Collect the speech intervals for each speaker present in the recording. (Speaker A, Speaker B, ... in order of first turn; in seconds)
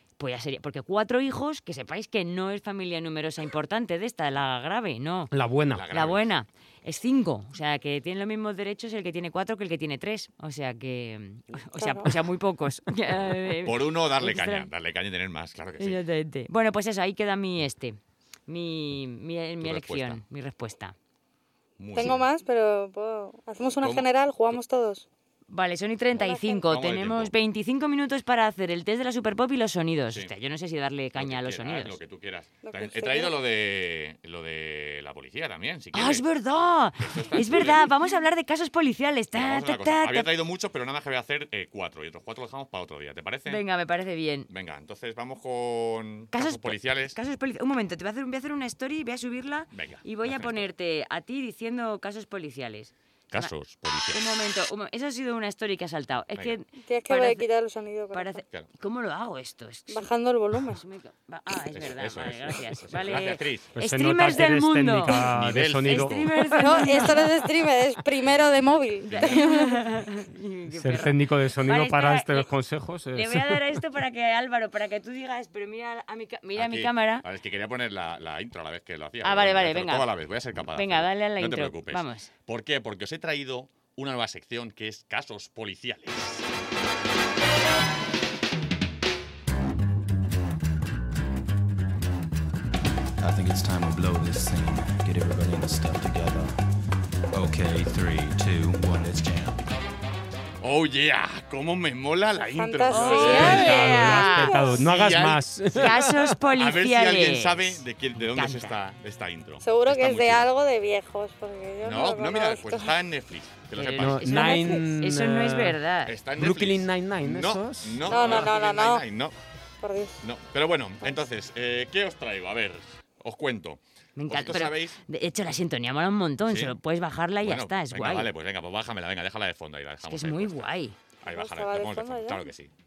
Speaker A: 0.2-5.3, 5.9-14.7, 15.8-20.9, 25.5-32.0, 35.9-40.3, 43.5-44.5, 46.3-53.5, 54.1-57.5, 58.1-60.1, 60.7-65.2, 65.9-67.3, 69.1-72.5, 73.1-77.2, 79.2-80.1, 80.8-82.3, 102.9-104.6, 105.7-108.8, 113.8-116.2, 124.2-128.3, 130.1-131.0
Speaker B: 5.3-5.9, 63.8-66.3, 70.7-73.8, 103.2-106.4, 114.0-115.8, 116.4-118.1
Speaker C: 5.7-6.3, 13.6-16.0, 19.6-20.2, 21.8-22.2, 23.8-24.6, 26.7-27.3, 31.2-36.3, 37.0-37.8, 39.3-43.6, 44.5-47.2, 49.7-50.6, 53.3-54.2, 61.7-63.7, 65.3-66.3, 69.1-69.4, 76.6-86.5, 100.6-104.2, 104.8-105.9, 106.6-110.5, 111.8-114.4, 116.1-119.3, 120.2-125.0, 126.5-126.8, 127.4-130.7, 131.2-132.7
Speaker D: 11.8-12.1, 21.9-25.1, 26.2-26.6, 32.6-33.4, 56.8-58.4, 59.9-60.8, 66.6-69.8, 102.5-104.7, 109.6-112.9, 118.1-119.0, 119.8-120.2, 131.3-132.5
Speaker E: 93.2-96.6, 97.3-99.7